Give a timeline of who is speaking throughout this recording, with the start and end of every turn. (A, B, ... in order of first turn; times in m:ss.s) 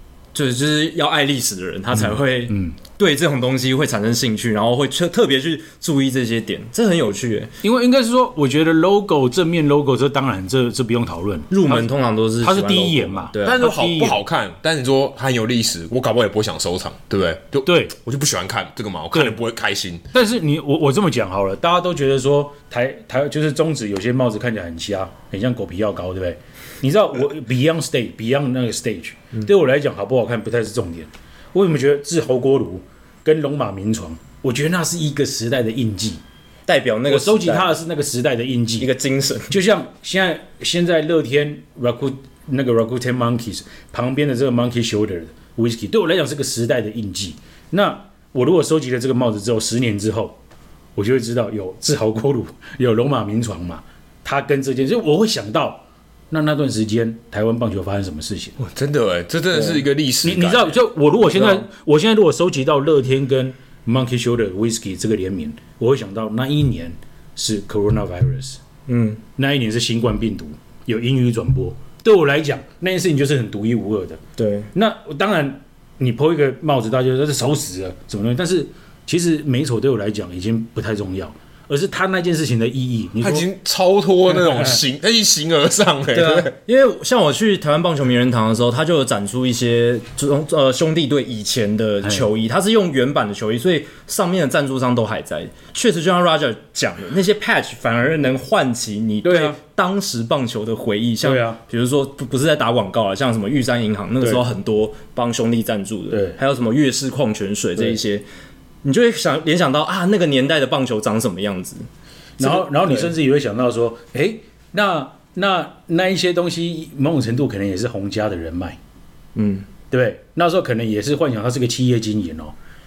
0:00.3-0:07.5 A
0:02.0-0:02.8 B
0:07.6-0:14.2 B
0:11.5-0:14.1 A
0:13.4-0:20.0 C
0:17.7-0:18.0 B
0:19.1-0:19.4 B
0:20.1-0:36.2 B
0:36.7-0:37.7 A
0:37.1-0:38.9 B
0:38.8-0:39.6 A
0:39.5-0:50.4 B
0:51.0-0:58.6 B
0:58.6-1:00.8 C
0:59.6-1:08.6 B
1:01.3-1:01.7 A
1:08.9-1:09.2 A
1:09.4-1:14.2 B
1:14.4-1:14.7 A
1:14.7-1:23.5 B
1:23.2-1:26.5 C
1:26.1-1:48.2 A
1:39.2-1:39.6 B
1:41.2-1:41.6 B
1:46.1-1:46.4 B
1:48.8-1:51.9 A
1:52.4-1:58.8 B
1:52.4-1:53.1 A
1:59.4-1:59.7 A
1:59.9-2:02.6 B